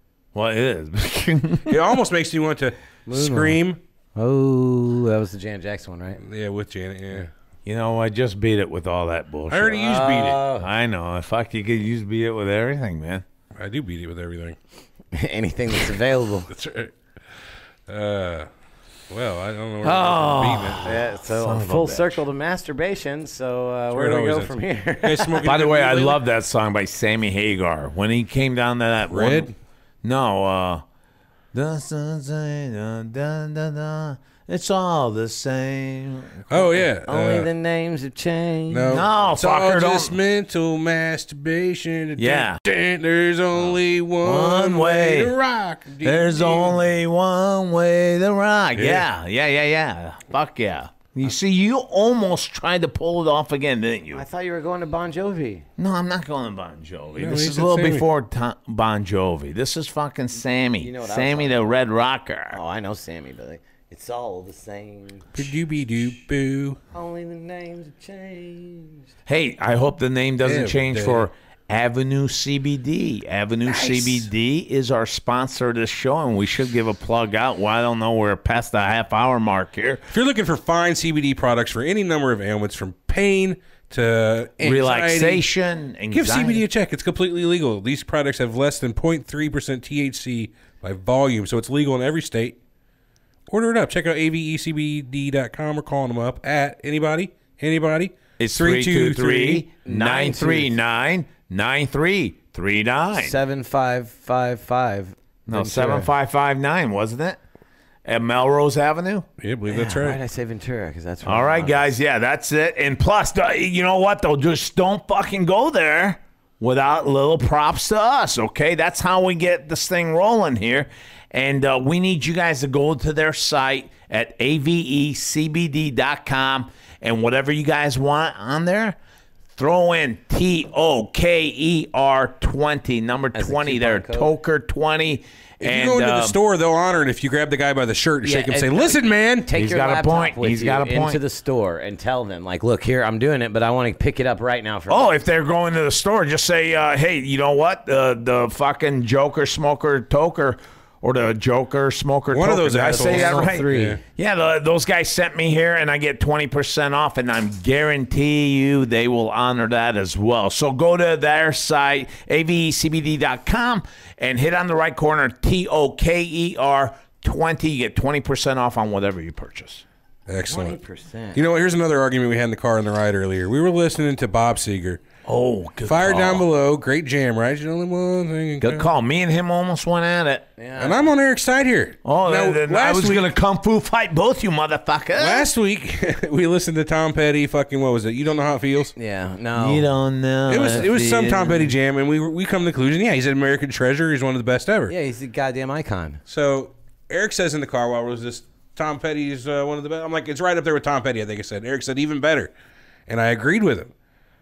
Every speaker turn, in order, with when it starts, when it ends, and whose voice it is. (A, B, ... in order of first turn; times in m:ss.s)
0:00.3-0:01.8 A
0:01.7-0:03.8 B
0:03.1-0:03.6 C
0:04.2-0:06.2 C
0:06.2-0:07.3 B
0:07.7-0:09.8 A
0:09.5-0:10.4 B
0:09.7-0:10.7 C
0:10.6-0:13.2 A
0:13.6-0:14.6 B
0:15.1-0:16.5 C
0:16.5-0:16.9 B
0:17.9-0:18.5 B
0:19.1-0:21.0 B
0:19.8-0:22.2 A
0:20.8-0:25.4 C
0:23.9-0:26.2 B
0:25.4-0:29.5 A
0:29.1-0:29.5 B
0:30.0-0:30.8 A
0:31.5-0:36.8 A
0:36.5-0:37.5 B
0:37.1-0:39.0 C
0:38.7-0:46.8 B
0:38.9-0:40.1 A
0:42.2-0:42.6 A
0:44.2-0:45.3 A
0:46.0-0:54.2 A
0:48.8-0:49.1 B
0:54.1-0:55.7 C
0:55.8-1:02.6 A
0:57.2-0:58.1 B
1:00.8-1:01.7 C
1:02.5-1:05.3 C
1:05.4-1:06.8 B
1:06.9-1:09.1 C
1:09.3-1:20.0 A
1:10.4-1:11.3 B
1:13.7-1:14.3 B
1:20.1-1:25.4 B
1:24.6-1:26.6 A
1:26.1-1:32.6 B
1:33.5-1:39.7 B
1:38.4-1:43.4 A
1:39.8-1:40.8 C
1:43.2-1:46.1 C
1:45.5-1:47.4 A
1:48.0-1:49.3 A
1:49.4-1:50.2 B
1:49.7-1:51.9 C
1:51.2-2:09.0 A
2:09.6-2:16.4 A
2:13.3-2:14.3 C
2:15.6-2:19.5 B
2:18.2-2:25.2 C
2:19.5-2:21.2 A
2:24.9-2:49.8 A
2:32.3-2:34.0 B
2:32.9-2:34.0 C
2:50.3-2:50.8 B
2:50.5-2:51.4 C
2:51.4-2:55.0 B
2:55.3-2:56.5 A
2:55.8-2:58.9 B
2:58.6-3:00.5 A
3:00.6-3:01.1 C
3:00.8-3:03.3 B
3:02.0-3:05.5 A
3:05.2-3:08.9 B
3:09.0-3:09.9 C
3:09.6-3:11.7 A
3:10.5-3:14.9 B
3:14.9-3:16.2 C
3:16.3-3:22.5 B
3:23.1-3:23.9 B